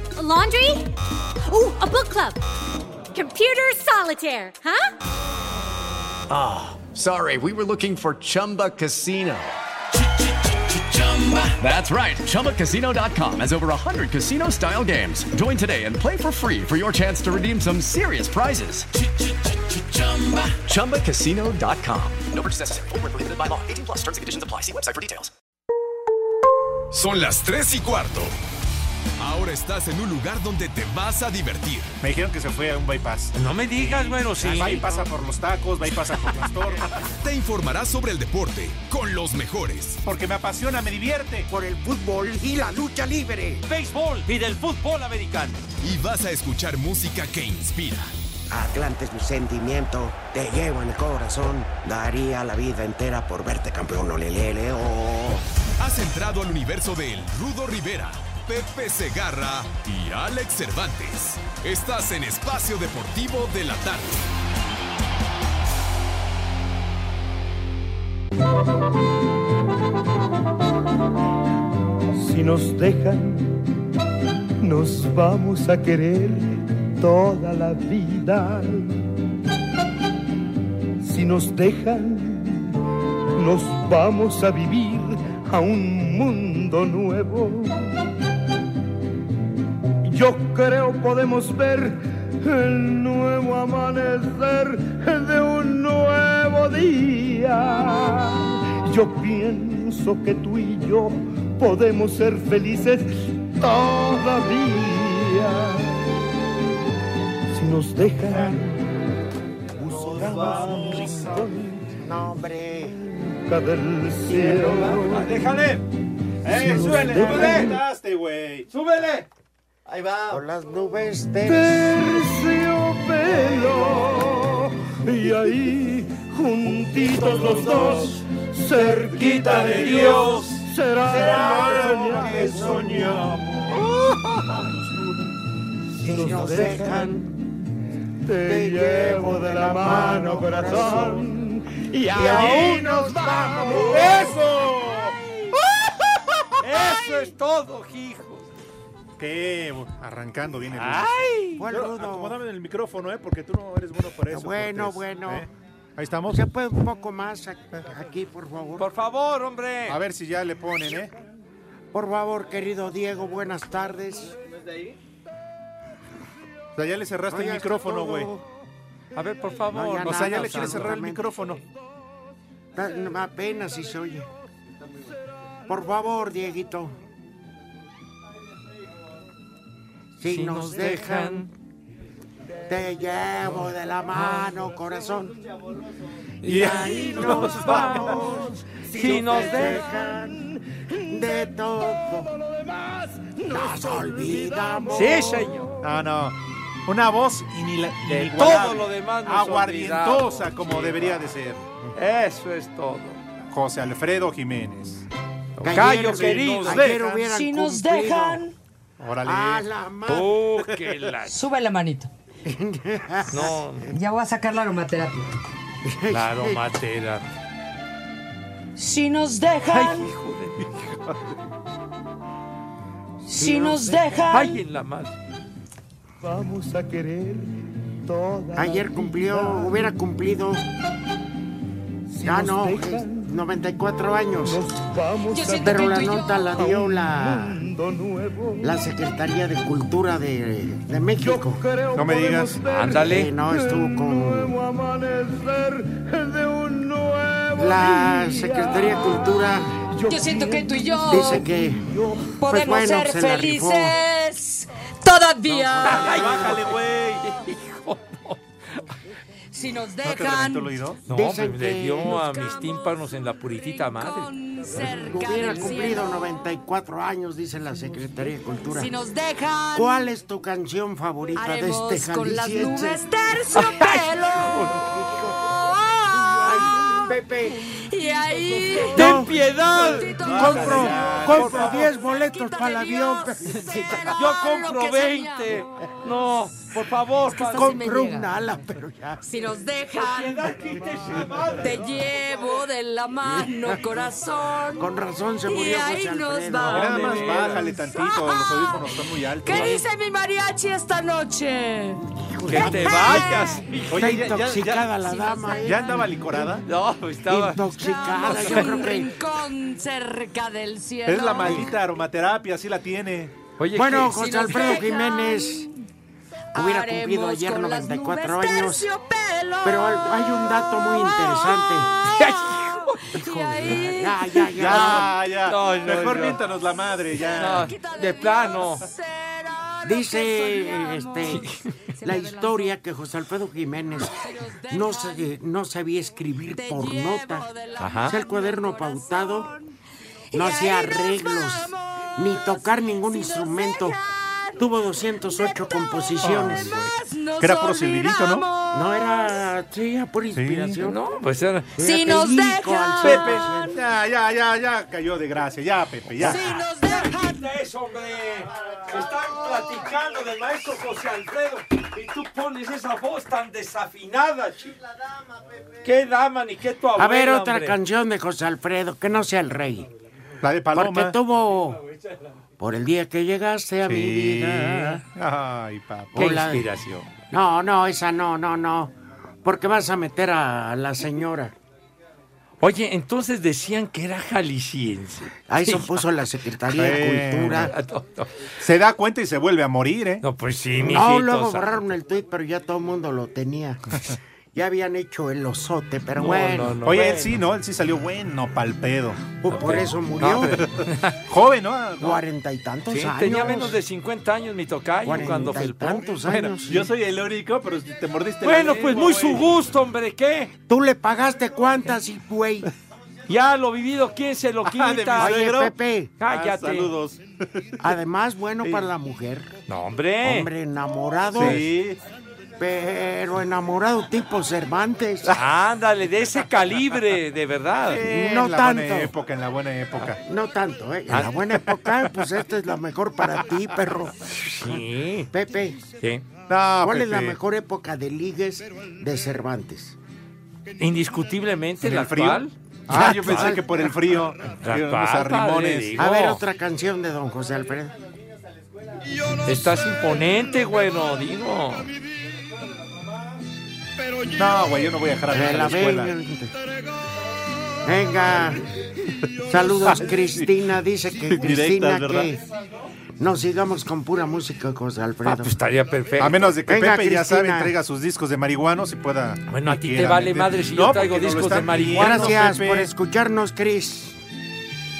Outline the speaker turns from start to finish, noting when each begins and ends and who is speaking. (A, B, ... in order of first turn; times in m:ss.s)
0:00.2-0:00.9 A
0:01.5-0:02.4 A
0:03.1-0:04.9 A
0:06.3-0:09.5 B
0:11.1-0:18.9 B
0:20.0-0:25.3 B
0:26.9-0:28.3 C
0:29.2-0:32.0 C
0:32.0-0:33.3 D
0:33.3-0:35.0 E
0:34.3-0:37.0 D
0:37.1-0:40.0 C
0:40.0-0:41.5 D
0:41.5-0:43.7 F
0:43.7-0:45.6 E
0:45.8-0:48.1 C
0:48.5-0:55.4 F
0:55.8-1:04.2 C
1:12.2-1:13.6 G
1:14.6-1:19.0 G
1:21.0-1:22.7 G
1:23.4-1:27.9 G
1:30.0-1:46.1 G
1:47.5-1:48.8 G
1:49.8-1:52.0 G
1:49.9-1:51.4 D
1:52.0-1:53.0 F
1:53.0-1:55.3 G
1:54.3-1:55.0 F
1:54.9-1:55.8 E
1:56.4-1:58.7 D
1:56.4-1:57.8 G
1:56.8-1:57.6 E
1:58.7-1:59.2 E
2:00.3-2:02.2 F
2:01.4-2:13.4 G
2:07.3-2:08.0 D
2:08.8-2:13.4 D
2:09.2-2:10.6 E
2:12.4-2:13.1 F
2:16.0-2:17.3 F
2:16.0-2:17.2 G
2:18.2-2:24.3 G
2:18.4-2:21.3 F
2:22.1-2:24.3 F
2:22.2-2:22.8 D
2:23.9-2:25.2 D
2:26.6-2:28.5 E
2:29.2-2:31.1 D
2:30.7-2:31.6 E
2:31.6-2:32.4 F
2:31.7-2:36.4 D
2:34.3-2:35.5 F
2:36.3-2:38.9 F
2:38.8-2:40.0 E
2:39.9-2:41.1 D
2:41.9-2:44.4 F
2:46.8-2:48.3 D
2:47.3-2:48.4 F
2:49.2-2:51.1 E
2:49.7-2:51.4 F
2:50.0-2:51.6 D
2:52.7-2:54.3 F
2:55.7-2:57.0 F
3:00.2-3:01.5 F
3:00.3-3:01.5 E
3:02.7-3:05.4 F
3:04.1-3:04.6 E
3:06.4-3:09.8 E
3:06.5-3:07.8 D
3:06.5-3:10.4 F
3:09.0-3:15.7 G
3:11.1-3:12.3 F
3:13.5-3:15.5 F
3:14.9-3:15.7 E
3:15.8-3:21.8 D
3:18.0-3:21.2 E
3:22.0-3:23.2 E
3:23.5-3:25.0 D
3:25.6-3:26.9 E
3:25.6-3:28.4 F
3:25.8-3:27.3 D
3:27.2-3:28.5 H
3:29.0-3:29.7 D
3:29.2-3:30.4 F
3:30.1-3:31.4 E
3:31.2-3:32.1 H
3:32.4-3:33.6 F
3:33.3-3:33.9 E
3:33.9-3:35.3 H
3:35.8-3:36.6 F
3:36.1-3:37.3 E
3:38.8-3:40.1 H
3:39.7-3:40.9 E
3:43.2-3:44.6 H
3:43.3-3:44.3 F
3:44.3-3:45.1 E
3:46.2-3:49.9 G
3:48.5-3:50.6 F
3:52.1-3:53.3 G
3:52.2-3:54.7 F
3:54.4-3:58.8 G
3:55.3-3:56.5 H
3:55.6-3:57.6 F
3:58.6-4:01.6 F
4:01.2-4:12.4 G
4:01.9-4:02.6 D
4:02.6-4:03.3 E
4:03.0-4:04.6 F
4:07.6-4:09.8 F
4:10.1-4:11.3 H
4:11.0-4:11.8 F
4:12.4-4:16.4 H
4:12.4-4:14.0 F
4:15.5-4:16.6 F
4:15.8-4:18.4 E
4:15.9-4:17.2 D
4:19.5-4:20.8 H
4:20.0-4:21.0 D
4:21.1-4:22.5 F
4:21.1-4:24.3 E
4:22.2-4:22.7 H
4:23.7-4:26.1 H
4:24.8-4:29.0 F
4:28.7-4:30.1 H
4:29.7-4:33.4 F
4:31.3-4:34.7 H
4:33.5-4:34.8 E
4:34.7-4:35.5 F
4:35.4-4:37.0 H
4:36.2-4:40.1 G
4:36.4-4:37.8 F
4:37.7-4:45.7 H
4:38.9-4:41.9 E
4:38.9-4:39.3 F
4:40.2-4:41.7 D
4:40.3-4:44.2 F
4:43.5-4:47.8 E
4:47.2-4:48.3 H
4:47.5-4:49.2 F
4:49.2-4:50.5 H
4:50.0-4:51.8 E
4:51.1-4:52.0 G
4:51.6-5:03.7 H
4:53.2-4:53.8 F
4:54.7-4:57.3 F
4:56.6-4:59.8 D
4:56.8-4:57.6 E
5:02.2-5:06.5 F
5:02.4-5:04.2 E
5:03.9-5:04.9 D
5:05.0-5:06.4 H
5:05.6-5:06.6 D
5:06.6-5:07.6 E
5:07.3-5:09.2 F
5:07.6-5:11.8 H
5:08.2-5:08.8 E
5:11.0-5:13.3 D
5:13.6-5:14.7 E
5:13.7-5:15.7 F
5:14.1-5:15.7 H
5:16.5-5:18.9 F
5:16.5-5:24.9 H
5:19.6-5:21.9 F
5:22.2-5:23.0 E
5:23.1-5:25.1 F
5:24.6-5:27.8 D
5:24.6-5:26.4 E
5:27.2-5:32.8 H
5:27.3-5:28.8 E
5:29.8-5:31.4 F
5:31.3-5:31.6 E
5:32.0-5:37.5 F
5:34.0-5:35.3 H
5:36.5-5:39.6 H
5:37.8-5:38.1 E
5:38.1-5:39.5 F
5:40.3-5:49.4 H
5:40.3-5:44.0 F
5:44.6-5:46.8 F
5:46.2-5:48.5 D
5:48.7-5:51.0 F
5:50.3-5:50.8 D
5:50.8-5:51.7 E
5:51.8-5:53.8 H
5:51.8-5:53.8 F
5:53.0-5:56.6 D
5:56.2-5:57.5 H
5:56.2-6:04.8 E
6:05.8-6:07.8 E
6:07.0-6:09.9 F
6:10.4-6:11.2 D
6:10.7-6:11.8 F
6:12.6-6:15.0 F
6:13.9-6:16.1 D
6:16.1-6:16.7 F
6:16.1-6:17.1 E
6:17.3-6:21.5 F
6:22.6-6:26.0 E
6:25.5-6:27.7 F
6:26.8-6:27.7 D
6:27.4-6:28.4 E
6:28.6-6:30.2 D
6:30.2-6:31.9 E
6:30.8-6:34.0 F
6:34.5-6:36.8 F
6:36.2-6:37.4 E
6:36.8-6:39.2 D
6:39.4-6:40.6 F
6:39.5-6:41.2 E
6:41.3-6:42.2 D
6:42.0-6:43.8 F
6:42.9-6:46.2 E
6:45.0-6:46.9 F
6:46.2-6:49.5 D
6:48.4-6:50.5 E
6:50.7-6:52.7 F
6:53.3-6:55.4 E
6:54.6-6:57.7 D
6:55.2-6:56.1 F
6:56.2-6:56.9 E
6:57.8-6:59.6 F
6:59.7-7:00.5 E
7:00.2-7:01.7 F
7:01.3-7:02.0 D
7:01.4-7:01.6 E
7:02.6-7:05.3 F
7:05.3-7:08.0 E
7:07.8-7:10.2 D
7:08.0-7:09.1 F
7:10.2-7:15.8 F
7:11.1-7:11.5 E
7:14.2-7:15.3 E
7:16.0-7:16.2 E
7:16.5-7:17.4 D
7:16.8-7:20.0 F
7:20.8-7:23.6 E
7:21.8-7:26.0 D
7:22.9-7:23.9 F
7:24.5-7:26.4 E
7:26.0-7:27.9 F
7:29.0-7:30.5 G
7:29.4-7:31.9 E
7:32.0-7:32.3 G
7:34.0-7:34.9 G
7:34.3-7:36.1 D
7:35.3-7:36.5 F
7:36.5-7:37.0 G
7:37.8-7:38.6 F
7:38.2-7:38.5 G
7:39.5-7:42.4 F
7:39.5-7:40.3 G
7:40.0-7:40.5 D
7:41.2-7:42.3 D
7:43.2-7:45.5 F
7:45.2-7:46.6 E
7:46.2-7:52.9 D
7:46.6-7:47.7 F
7:49.5-7:52.4 E
7:51.9-7:54.2 F